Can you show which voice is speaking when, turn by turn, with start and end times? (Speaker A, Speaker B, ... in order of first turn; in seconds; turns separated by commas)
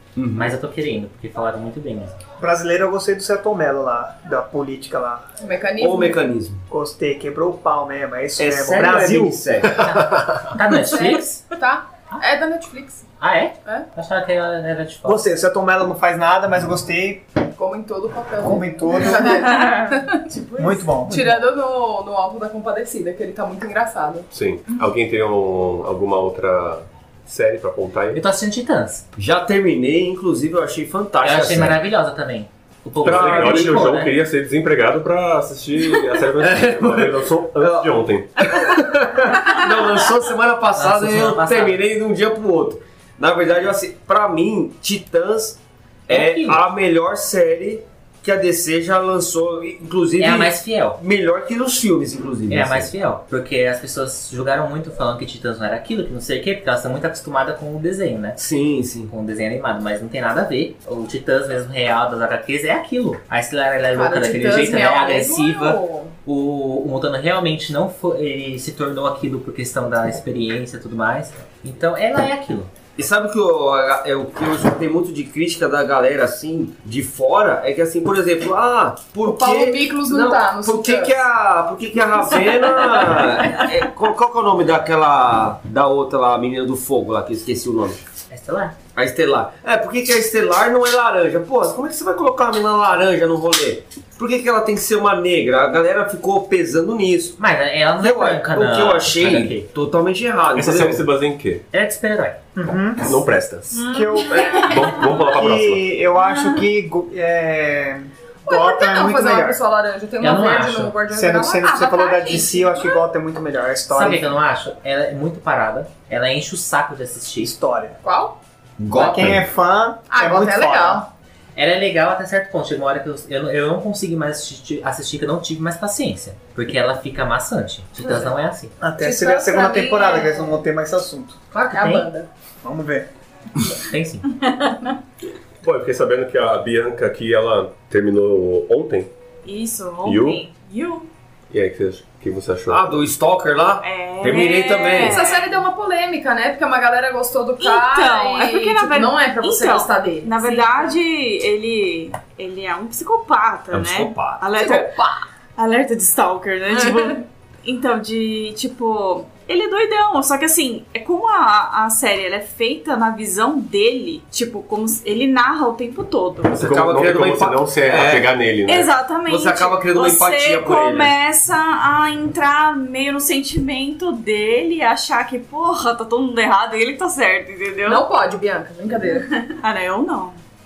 Speaker A: 0.2-0.5, Speaker B: 0.3-2.2, Speaker C: 2.4-5.2, Speaker D: 5.4-6.2, Speaker A: 5.8-6.6, Speaker C: 6.7-9.4, Speaker A: 8.4-10.4, Speaker B: 9.8-11.3, Speaker D: 10.9-13.0, Speaker B: 13.2-15.2, Speaker C: 15.0-17.3, Speaker D: 17.6-20.2, Speaker C: 18.4-19.5, Speaker E: 19.5-19.8, Speaker E: 20.4-20.9, Speaker C: 20.6-21.4, Speaker D: 21.1-24.3, Speaker F: 24.3-28.2, Speaker B: 28.1-29.1, Speaker A: 29.2-31.8, Speaker B: 31.2-34.1, Speaker F: 33.0-38.7, Speaker A: 33.1-33.9, Speaker A: 36.4-52.9, Speaker B: 40.8-41.8, Speaker B: 46.1-46.6, Speaker B: 50.2-51.0, Speaker B: 52.5-58.4, Speaker A: 58.4-59.1, Speaker B: 59.1-72.7, Speaker D: 63.9-66.1, Speaker A: 73.0-88.0, Speaker D: 79.2-81.2, Speaker B: 88.3-88.8, Speaker A: 89.0-97.4, Speaker B: 97.4-99.7, Speaker A: 98.0-101.1, Speaker F: 100.5-101.6, Speaker B: 101.7-102.4, Speaker C: 102.6-103.2, Speaker F: 103.0-105.9, Speaker E: 103.7-105.3, Speaker C: 103.8-109.6, Speaker E: 106.2-106.6, Speaker D: 108.5-112.0, Speaker B: 110.2-111.0, Speaker C: 111.1-114.3, Speaker B: 113.9-117.5, Speaker C: 117.4-118.0, Speaker D: 118.0-118.4, Speaker A: 118.8-119.5, Speaker C: 119.0-121.0, Speaker D: 120.1-121.1, Speaker B: 121.6-128.7, Speaker C: 128.8-131.4, Speaker D: 129.0-130.6, Speaker B: 131.5-132.1, Speaker D: 131.7-132.3, Speaker C: 132.6-133.1, Speaker B: 133.8-134.3, Speaker F: 135.6-139.1, Speaker E: 139.4-141.1, Speaker F: 140.0-140.4, Speaker F: 141.5-143.0, Speaker A: 142.7-145.2, Speaker E: 143.8-145.6, Speaker D: 145.0-151.0, Speaker E: 147.6-166.6, Speaker A: 153.7-154.8, Speaker D: 156.7-157.1, Speaker F: 166.5-168.9, Speaker A: 166.6-168.3, Speaker E: 168.7-178.1, Speaker A: 169.3-171.2, Speaker D: 177.8-179.3, Speaker E: 179.1-180.4